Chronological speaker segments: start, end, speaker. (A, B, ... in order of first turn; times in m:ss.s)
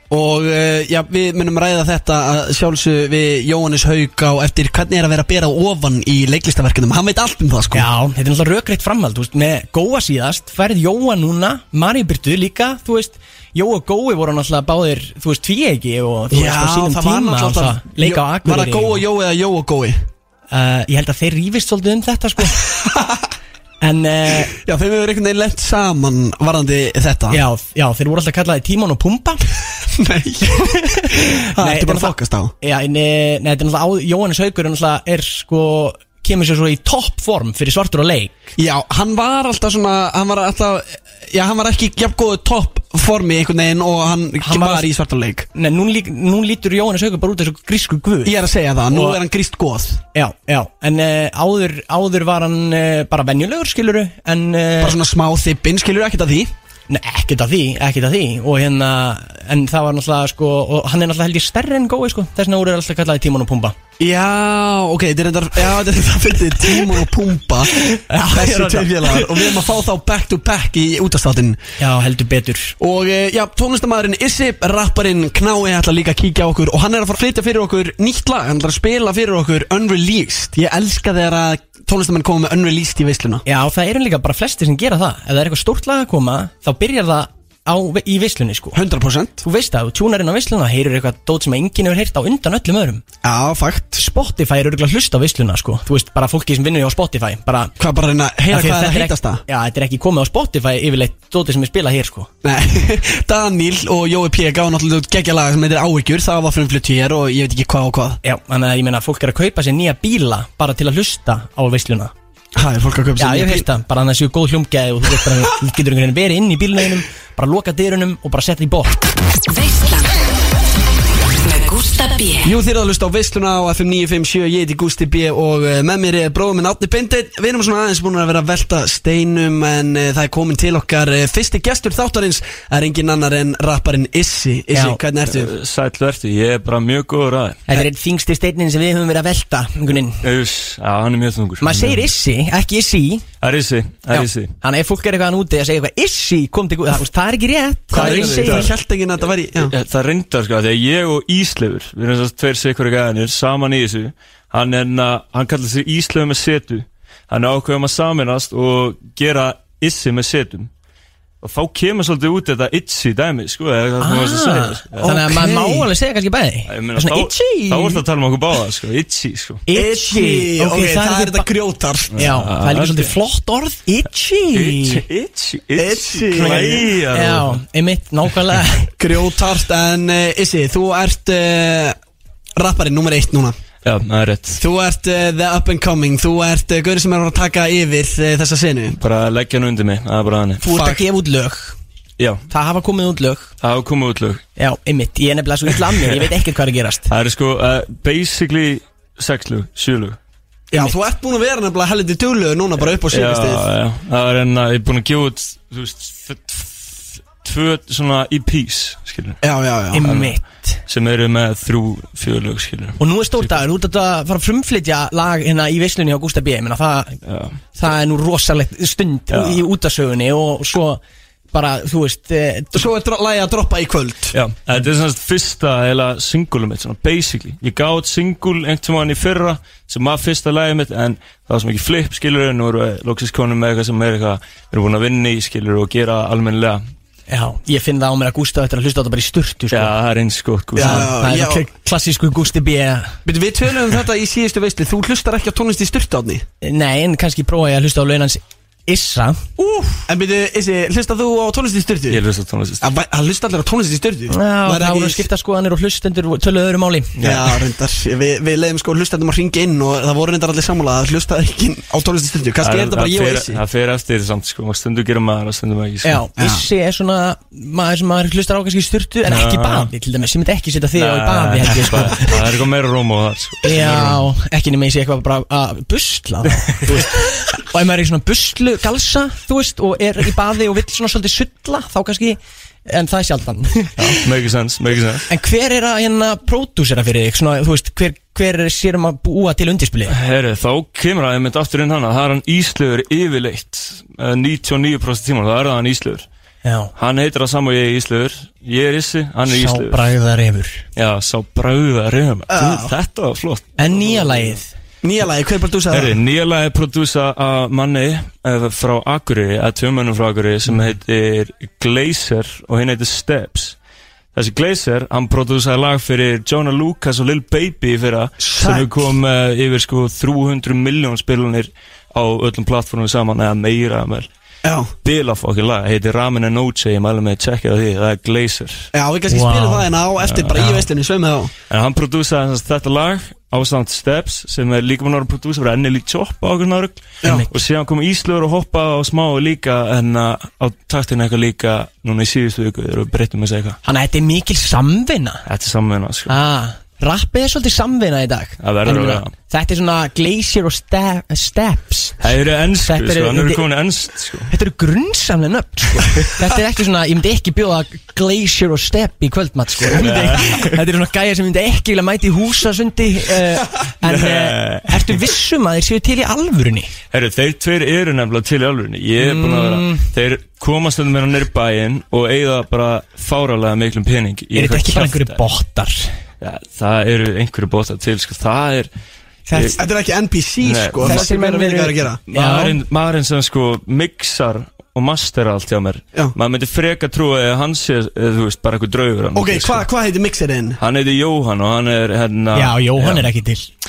0:00.1-0:07.9 A
0:07.7-0:19.0 B
0:16.3-0:20.0 A
0:20.5-0:22.6 B
0:22.9-0:23.2 A
0:23.8-0:24.5 B
0:24.5-0:27.4 A
0:27.3-0:29.4 B
0:29.9-0:32.5 A
0:30.5-0:38.5 B
0:38.6-0:45.5 A
0:44.4-0:44.9 B
0:45.5-0:48.4 B
0:48.2-0:50.0 A
0:48.9-0:49.2 B
0:50.1-0:55.0 B
0:54.8-0:56.5 A
0:56.9-1:03.8 B
1:04.0-1:11.6 A
1:07.7-1:09.6 B
1:11.8-1:12.8 B
1:12.8-1:23.4 A
1:23.5-1:28.8 B
1:28.7-1:29.4 A
1:29.4-1:33.0 B
1:33.2-1:34.0 A
1:34.0-1:37.8 B
1:37.8-1:39.4 A
1:38.5-1:42.3 B
1:42.4-1:48.2 A
1:48.2-1:52.1 B
1:52.6-1:53.6 A
1:53.2-1:59.0 B
1:59.5-2:00.2 C
2:01.4-2:02.6 C
2:02.4-2:15.5 A
2:14.7-2:15.0 B
2:15.3-2:17.6 D
2:17.7-2:20.2 B
2:20.2-2:22.1 D
2:21.6-2:23.3 B
2:23.4-2:24.5 D
2:24.1-2:28.7 B
2:27.9-2:29.7 A
2:28.0-2:28.7 D
2:29.6-2:40.7 D
2:41.4-2:45.7 D
2:44.0-2:48.0 B
2:46.7-2:49.6 D
2:49.7-2:51.5 B
2:49.7-2:52.2 A
2:52.1-2:55.0 B
2:52.2-2:53.1 D
2:54.5-2:57.6 D
2:55.8-2:56.9 A
2:56.4-2:59.0 B
2:59.0-3:02.0 A
3:02.6-3:03.6 A
3:03.8-3:04.6 D
3:04.6-3:09.0 A
3:08.9-3:10.7 D
3:10.6-3:11.8 B
3:10.7-3:11.0 A
3:12.5-3:13.5 B
3:13.6-3:14.4 D
3:14.6-3:17.1 B
3:15.7-3:16.2 D
3:17.1-3:20.2 D
3:20.7-3:23.6 A
3:22.8-3:29.4 D
3:29.4-3:30.1 A
3:29.9-3:30.8 B
3:30.0-3:30.4 D
3:30.9-3:33.5 D
3:33.0-3:37.2 B
3:37.3-3:37.6 D
3:37.8-3:41.0 B
3:39.3-3:39.6 D
3:41.5-3:42.9 B
3:42.8-3:44.3 A
3:44.3-3:56.8 D
3:57.3-3:59.9 B
3:59.7-4:01.1 D
4:00.8-4:01.7 A
4:00.8-4:03.2 B
4:03.3-4:06.4 A
4:06.6-4:10.1 B
4:10.1-4:12.2 A
4:12.1-4:12.9 D
4:12.8-4:15.2 A
4:14.3-4:17.2 B
4:17.2-4:17.5 D
4:17.2-4:23.6 A
4:22.6-4:26.2 D
4:26.0-4:32.4 B
4:26.4-4:26.6 A
4:29.3-4:29.9 D
4:31.0-4:34.3 D
4:33.6-4:44.2 B
4:44.0-4:45.3 D
4:45.3-4:50.2 B
4:50.1-4:56.3 D
4:56.6-4:56.9 B
4:57.0-5:00.1 D
4:59.5-5:00.8 B
5:01.0-5:04.6 D
5:02.5-5:02.9 A
5:03.8-5:04.7 B
5:05.0-5:06.2 A
5:05.9-5:13.8 D
5:14.3-5:24.3 D
5:18.4-5:19.0 A
5:24.6-5:24.9 A
5:25.0-5:28.9 D
5:28.9-5:31.5 A
5:29.3-5:29.9 B
5:30.2-5:30.8 D
5:31.7-5:43.8 D
5:37.2-5:37.5 B
5:43.8-5:45.4 B
5:45.5-5:46.4 D
5:46.3-5:53.6 B
5:48.6-5:49.3 D
5:52.2-5:54.5 D
5:54.5-6:06.9 B
5:59.9-6:00.7 D
6:04.0-6:05.2 D
6:07.1-6:15.4 D
6:09.2-6:10.1 B
6:14.6-6:16.1 B
6:16.4-6:18.9 D
6:19.5-6:19.8 B
6:19.5-6:19.8 D
6:19.8-6:22.2 A
6:20.6-6:21.3 D
6:21.0-6:22.8 B
6:22.3-6:29.8 D
6:29.4-6:30.8 A
6:30.8-6:33.3 D
6:32.5-6:33.7 B